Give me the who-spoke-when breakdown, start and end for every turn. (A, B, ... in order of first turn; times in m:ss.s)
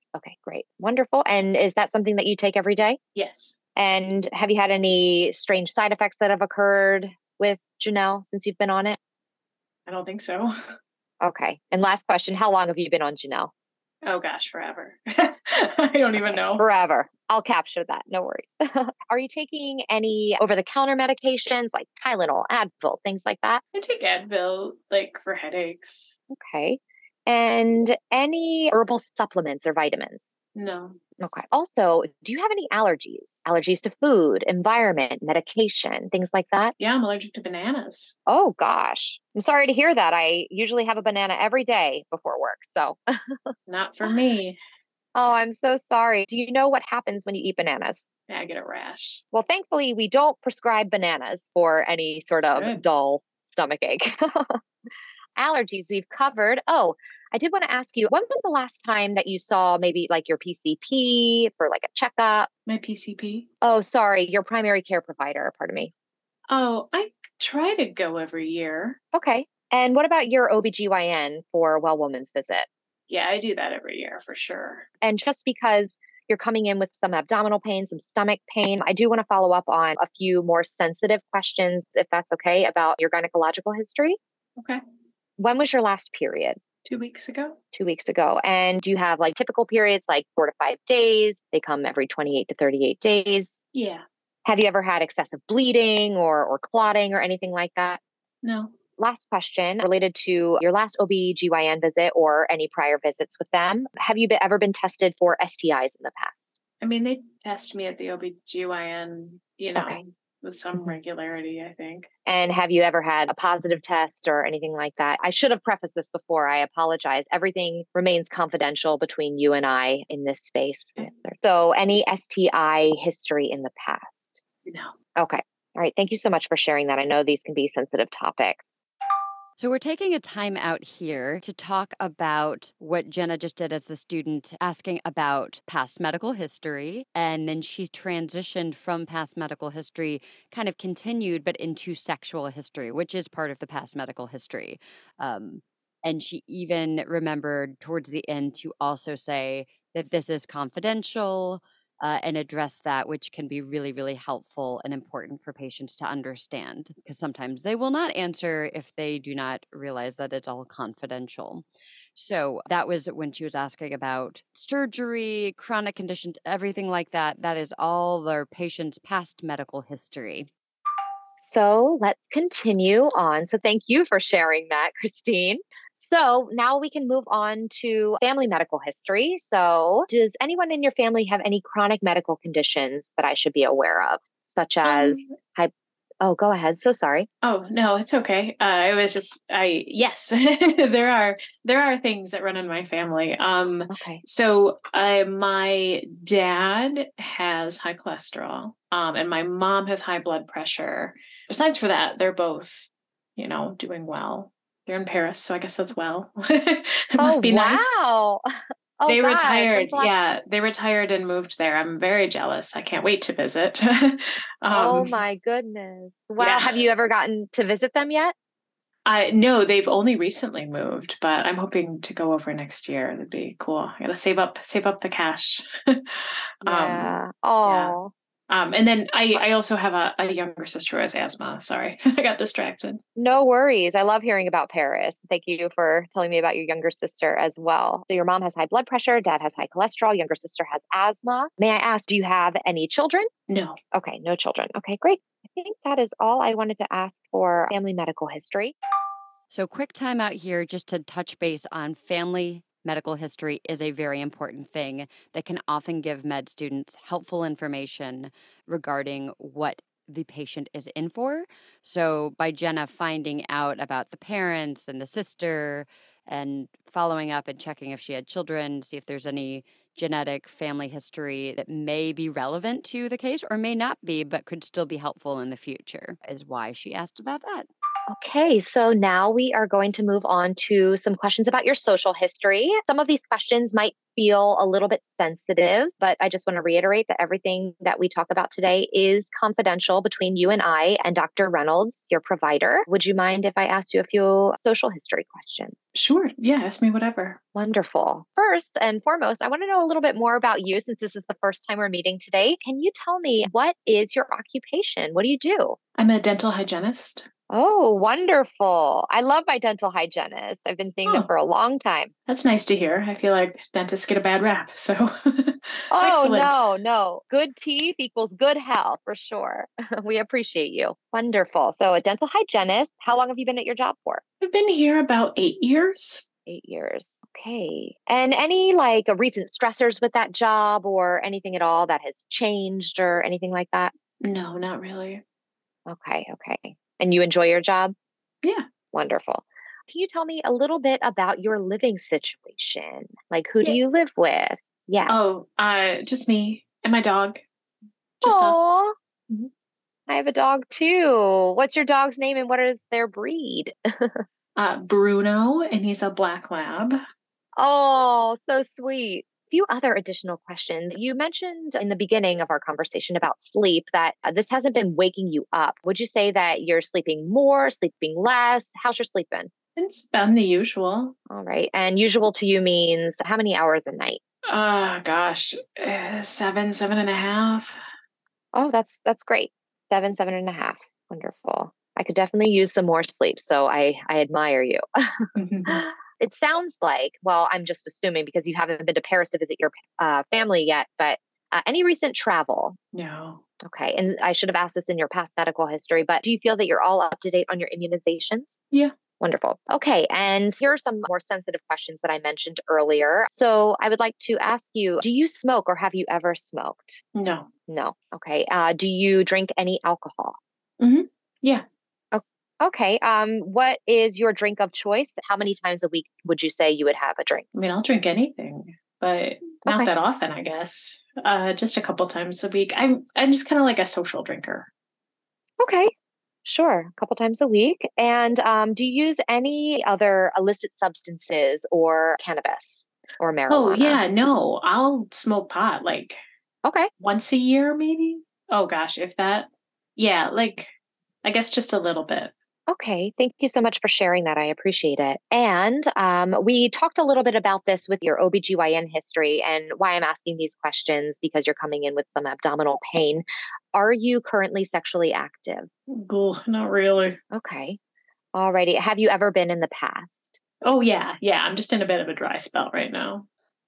0:00.2-0:03.0 A
0:03.2-0:03.6 B
0:03.8-0:09.0 A
0:09.9-0:10.7 B
0:11.2-0:13.5 A
0:14.0-0:16.6 B
0:16.2-0:23.6 A
0:23.7-0:26.2 B
0:26.3-0:30.3 A
0:30.6-0:31.0 B
0:31.2-0:36.7 A
0:36.8-0:38.2 B
0:38.3-0:43.4 A
0:43.7-0:44.6 B
0:45.2-0:48.1 A
0:48.3-0:49.2 B
0:49.3-0:54.6 A
0:52.4-0:52.8 B
0:55.4-1:02.5 A
1:02.7-1:03.5 B
1:03.6-1:05.9 A
1:06.5-1:09.0 B
1:09.1-1:12.7 A
1:13.1-1:14.9 B
1:15.0-1:24.2 A
1:25.4-1:26.6 A
1:26.9-1:27.6 B
1:27.7-1:33.6 A
1:33.7-1:34.0 B
1:34.5-1:38.0 A
1:38.4-1:38.7 B
1:39.0-1:46.6 A
1:46.8-1:52.1 B
1:49.8-1:50.0 A
1:52.3-2:04.4 A
2:04.7-2:04.9 B
2:05.2-2:08.8 A
2:09.6-2:50.5 C
2:51.4-3:07.3 A
3:04.8-3:05.3 B
3:07.4-3:28.0 B
3:13.9-3:14.2 A
3:27.2-3:28.5 A
3:29.0-3:30.1 A
3:29.1-3:35.2 B
3:34.7-3:38.3 A
3:36.4-3:36.8 B
3:39.0-3:48.0 B
3:46.6-3:48.1 A
3:48.5-3:53.0 B
3:53.2-4:03.3 A
4:03.5-4:03.8 B
4:03.9-4:08.8 A
4:09.5-4:37.7 C
4:38.1-4:55.8 A
4:56.0-4:57.4 B
4:57.6-5:05.8 A
5:06.0-5:07.3 B
5:07.5-5:12.1 A
5:12.3-5:16.6 B
5:15.9-5:24.2 A
5:24.4-5:26.2 B
5:26.5-5:33.9 A
5:34.2-5:35.2 B
5:35.9-5:37.9 A
5:38.9-5:45.2 A
5:45.1-5:47.4 B
5:48.2-5:48.7 B
5:48.2-5:49.5 A
5:50.1-5:54.2 A
5:54.6-5:57.0 B
5:57.6-6:09.5 A
6:09.8-6:11.2 B
6:11.3-6:14.2 A
6:14.5-6:17.8 B
6:18.5-6:32.8 A
6:25.4-6:25.8 B
6:32.9-6:33.4 B
6:33.6-6:38.6 A
6:39.2-6:47.0 A
6:47.2-6:47.5 B
6:47.7-6:50.4 A
6:50.8-6:51.6 B
6:52.1-6:57.4 A
6:57.6-7:04.7 B
7:05.6-7:05.9 A
7:06.4-7:14.0 A
7:13.5-7:16.2 B
7:16.6-7:16.9 A
7:17.0-7:20.7 B
7:21.2-7:22.3 B
7:22.7-7:35.7 A
7:35.9-7:37.2 B
7:37.3-7:37.8 A
7:38.4-7:40.4 A
7:40.6-7:43.3 B